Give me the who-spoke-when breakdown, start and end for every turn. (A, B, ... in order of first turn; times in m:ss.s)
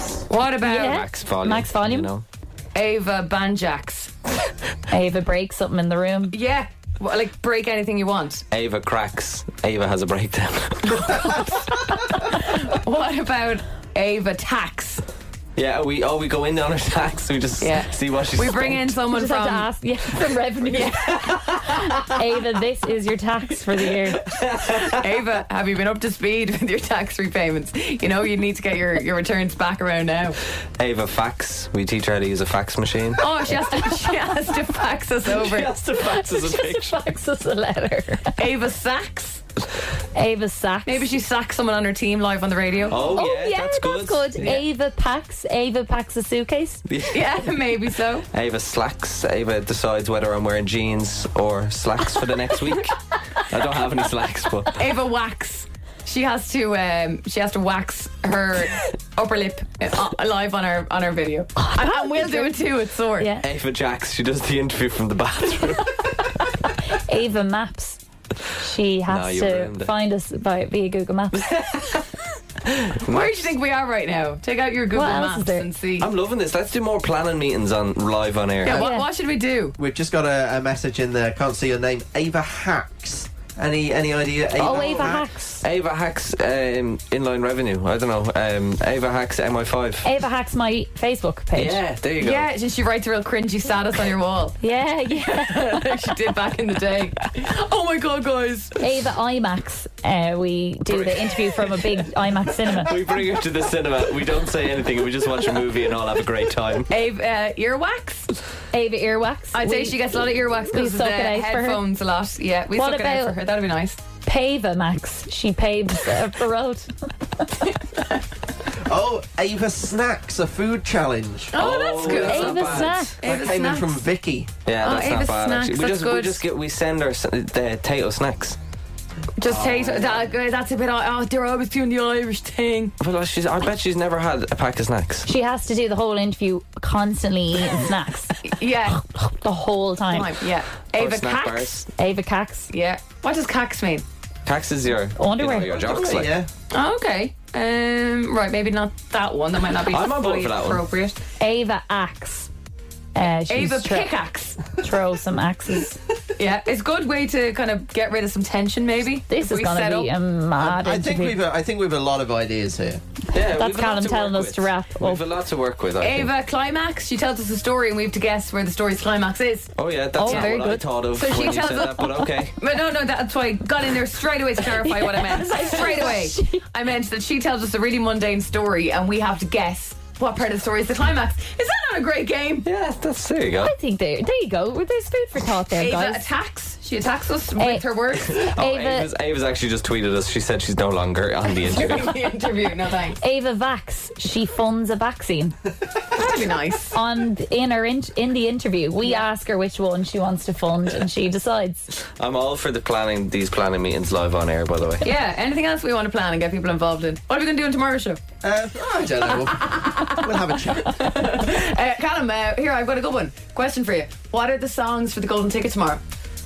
0:00.3-0:01.0 A
0:00.6-0:02.1 B
0:00.8-0:02.2 C
0:02.7-0:04.1 A
0:04.9-0:06.4 B
0:06.3-0:08.4 A
0:08.5-0:11.5 C
0:11.3-0:15.0 A
0:15.6-0:19.0 C
0:17.6-0:19.7 A
0:19.1-0:24.2 B
0:20.6-0:21.7 A
0:24.3-0:24.9 C
0:24.6-0:30.4 A
0:30.8-0:33.2 C
0:33.2-0:35.7 A
0:35.2-0:36.9 C
0:36.0-0:38.3 B
0:38.4-0:39.4 A
0:40.1-0:41.1 B
0:40.8-0:43.2 A
0:42.9-0:44.6 C
0:43.0-0:46.8 B
0:46.8-0:47.3 C
0:47.1-0:48.2 A
0:48.3-0:54.8 C
0:54.8-1:03.3 A
1:01.6-1:02.6 B
1:03.2-1:03.4 B
1:03.4-1:06.1 C
1:06.9-1:08.0 B
1:08.6-1:11.4 B
1:09.1-1:09.9 C
1:11.3-1:12.0 C
1:12.6-1:13.5 C
1:13.0-1:16.1 A
1:14.9-1:15.7 B
1:16.0-1:18.8 C
1:18.6-1:19.8 A
1:18.7-1:19.0 D
1:18.7-1:19.1 B
1:19.8-1:25.3 D
1:24.6-1:25.6 B
1:25.6-1:30.0 C
1:30.0-1:31.8 B
1:31.5-1:32.5 C
1:32.2-1:34.6 A
1:34.6-1:35.9 B
1:35.2-1:39.0 A
1:38.8-1:42.9 B
1:40.9-1:41.4 C
1:42.8-1:46.9 C
1:46.9-1:48.3 A
1:48.7-1:50.0 B
1:49.5-1:54.0 A
1:50.7-1:51.8 B
1:52.7-1:53.4 B
1:54.2-1:56.9 B
1:58.8-2:01.6 D
2:01.5-2:04.0 A
2:01.5-2:03.1 C
2:02.0-2:03.2 B
2:03.2-2:04.5 D
2:04.6-2:08.6 C
2:04.8-2:06.4 A
2:09.4-2:12.9 A
2:09.4-2:10.2 D
2:13.0-2:15.3 C
2:15.2-2:20.3 B
2:18.4-2:19.0 A
2:20.1-2:21.8 A
2:21.0-2:21.9 C
2:22.0-2:22.7 B
2:22.7-2:24.0 A
2:24.4-2:26.3 C
2:25.2-2:26.1 B
2:25.8-2:26.5 D
2:26.7-2:31.2 A
2:29.9-2:30.8 C
2:31.4-2:32.5 B
2:33.1-2:34.1 B
2:33.2-2:34.6 A
2:34.7-2:36.0 B
2:36.4-2:40.1 A
2:39.3-2:41.4 B
2:40.6-2:43.0 D
2:43.3-2:46.3 C
2:43.3-2:45.2 B
2:46.0-3:02.7 A
2:49.8-2:52.5 C
2:50.2-2:50.8 B
2:54.8-2:56.6 B
3:02.6-3:03.7 C
3:03.6-3:06.2 B
3:05.7-3:08.4 A
3:07.6-3:07.9 B
3:08.2-3:12.1 C
3:08.5-3:09.1 B
3:11.5-3:13.2 A
3:13.2-3:15.6 B
3:16.1-3:17.0 A
3:16.9-3:21.9 B
3:19.0-3:19.3 A
3:22.2-3:25.1 C
3:25.0-3:28.2 A
3:28.4-3:31.0 D
3:29.3-3:36.0 A